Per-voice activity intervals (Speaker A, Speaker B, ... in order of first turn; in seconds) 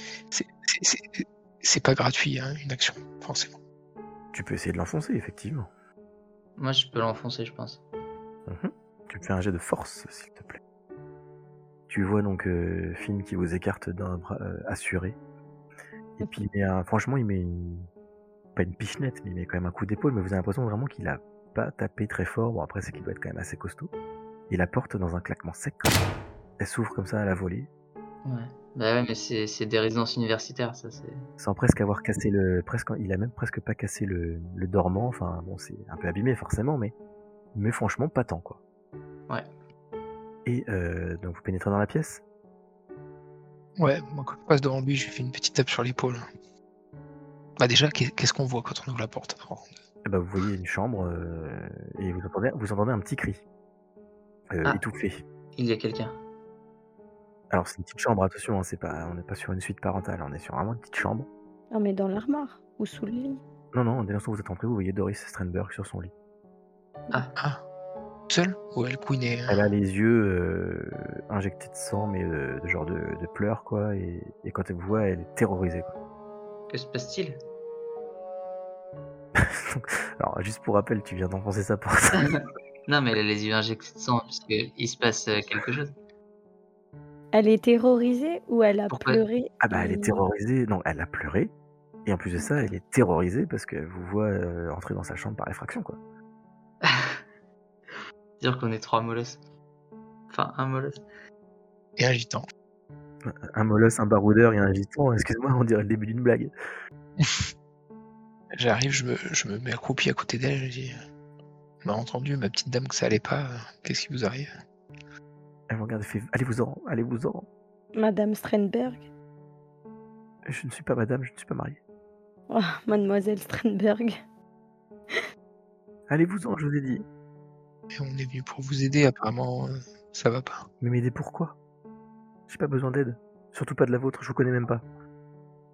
Speaker A: 0.3-3.5, 43.8-46.2, 47.6-49.7, 67.3-67.6, 68.3-69.6, 102.0-102.5, 107.2-107.5, 108.5-111.0, 111.8-114.5, 127.9-130.7
Speaker B: 4.3-5.7, 8.5-10.6, 11.9-15.2, 16.2-17.9, 18.6-23.9, 24.5-26.0, 26.6-27.7, 31.4-36.9, 37.5-38.6, 40.4-42.2, 50.0-53.4, 54.5-55.2, 57.5-61.3, 63.7-66.1, 69.5-75.9, 79.3-82.4, 89.6-91.5, 92.0-96.0, 103.2-106.5, 115.7-117.5, 120.4-121.8, 126.1-127.0, 130.8-131.6, 132.5-134.8
Speaker C: 6.6-7.8, 28.2-31.2, 55.5-56.2, 76.7-77.4, 82.2-85.9, 88.9-89.2, 96.8-97.2, 98.4-99.4, 100.3-101.0
Speaker D: 61.7-63.4, 87.3-90.2, 92.4-92.7, 117.9-119.0, 122.5-124.2